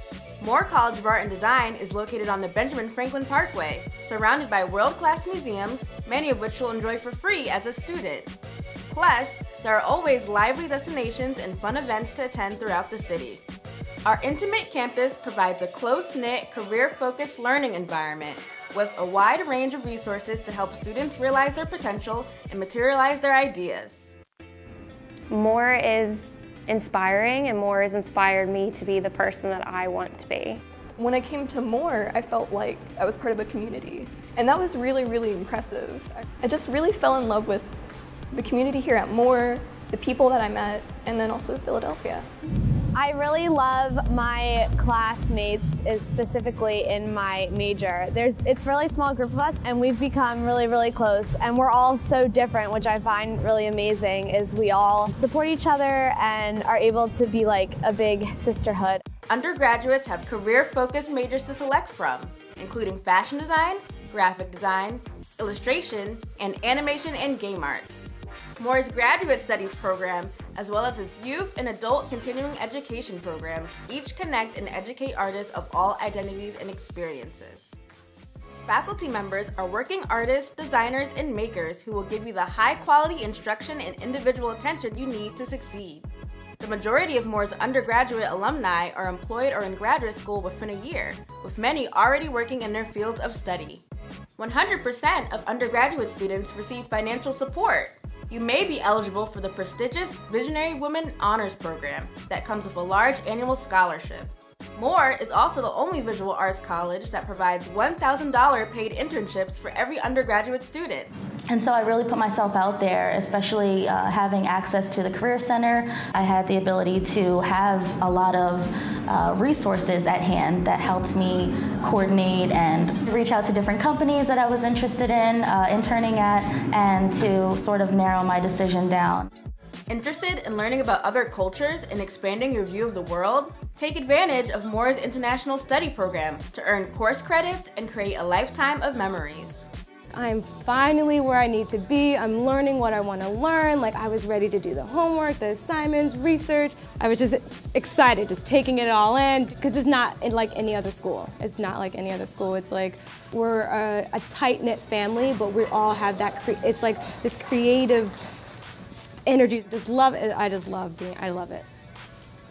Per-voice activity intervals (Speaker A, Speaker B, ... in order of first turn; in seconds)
Speaker A: 0.4-8.3, 8.9-13.4, 14.1-24.1, 59.3-77.8, 78.7-86.1, 86.6-93.8, 94.4-111.1, 129.9-139.7
Speaker B: 25.3-30.6
Speaker C: 31.0-37.8, 38.3-42.2
Speaker D: 42.9-59.0
Speaker E: 111.5-129.3
Speaker F: 140.1-158.2, 158.9-161.7